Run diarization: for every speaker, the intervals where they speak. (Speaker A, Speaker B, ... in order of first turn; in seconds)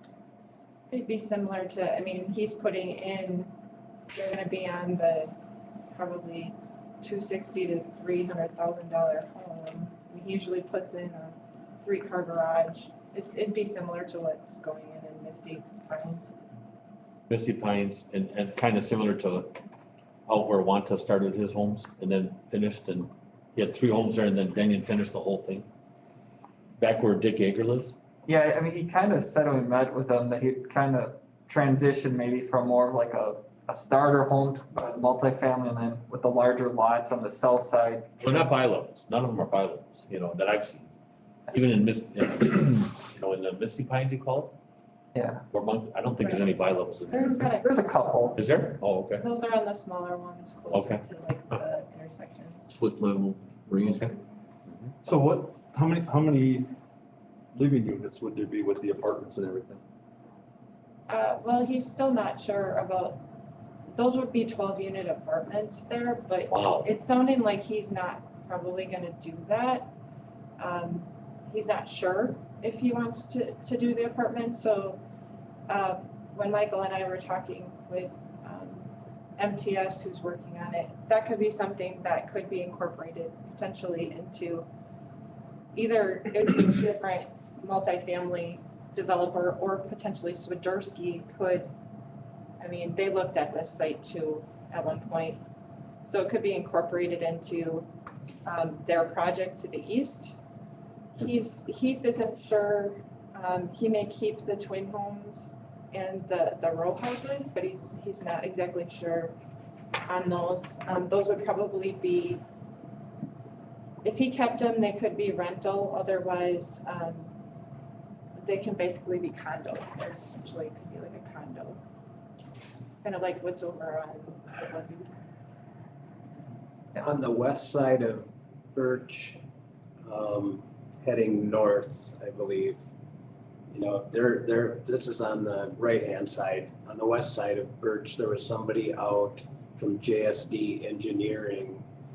Speaker A: 0.9-3.5, 4.1-5.3, 5.9-16.3, 46.2-46.5, 47.0-52.7, 61.1-63.2, 63.9-69.9, 70.6-75.0, 75.7-84.7, 85.7-91.7, 92.6-95.4, 96.1-97.9, 98.5-100.3, 101.2-109.3, 110.1-112.4, 114.0-117.3, 118.4-121.8, 123.0-125.1
Speaker B: 17.3-19.6, 20.3-25.7, 26.8-27.9, 38.2-40.9, 41.5-44.5, 45.5-47.5, 48.4-49.2, 50.7-51.0, 52.7-54.1, 66.5-66.9
Speaker C: 28.3-38.1, 45.1-45.4, 47.6-48.3
Speaker D: 55.0-56.7, 57.5-59.8
Speaker E: 127.0-129.4, 130.0-132.8, 133.7-141.8